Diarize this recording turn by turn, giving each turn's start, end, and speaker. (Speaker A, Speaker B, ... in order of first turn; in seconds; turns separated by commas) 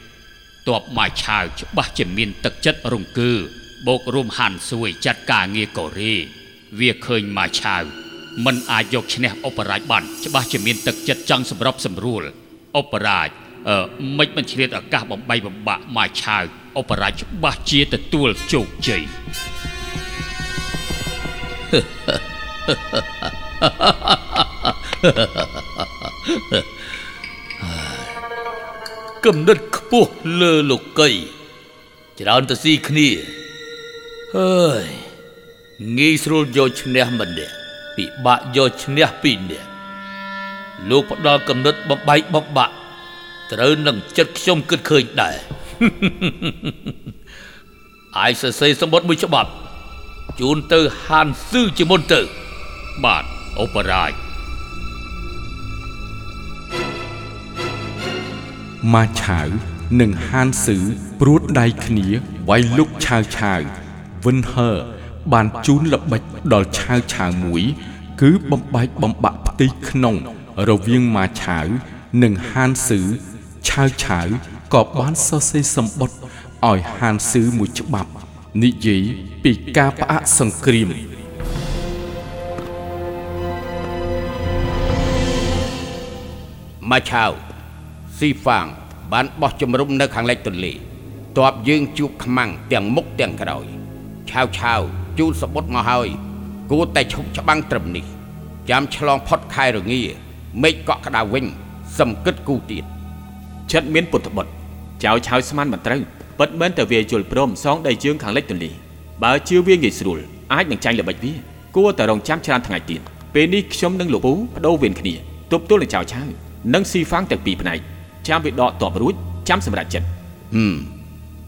Speaker A: 0.6-19.1, Speaker B: 21.7-26.9, Speaker B: 27.6-28.1, Speaker B: 29.2-31.3, Speaker B: 32.2-33.3, Speaker B: 34.3-35.1, Speaker B: 35.8-39.7, Speaker B: 40.8-42.7, Speaker B: 43.5-46.9, Speaker B: 48.1-49.5, Speaker B: 50.4-52.3, Speaker A: 53.0-54.1, Speaker C: 58.8-81.1, Speaker D: 86.8-87.4, Speaker D: 88.1-90.8, Speaker D: 91.3-93.7, Speaker D: 94.2-98.1, Speaker D: 98.7-102.9, Speaker E: 103.7-120.1, Speaker D: 120.5-120.9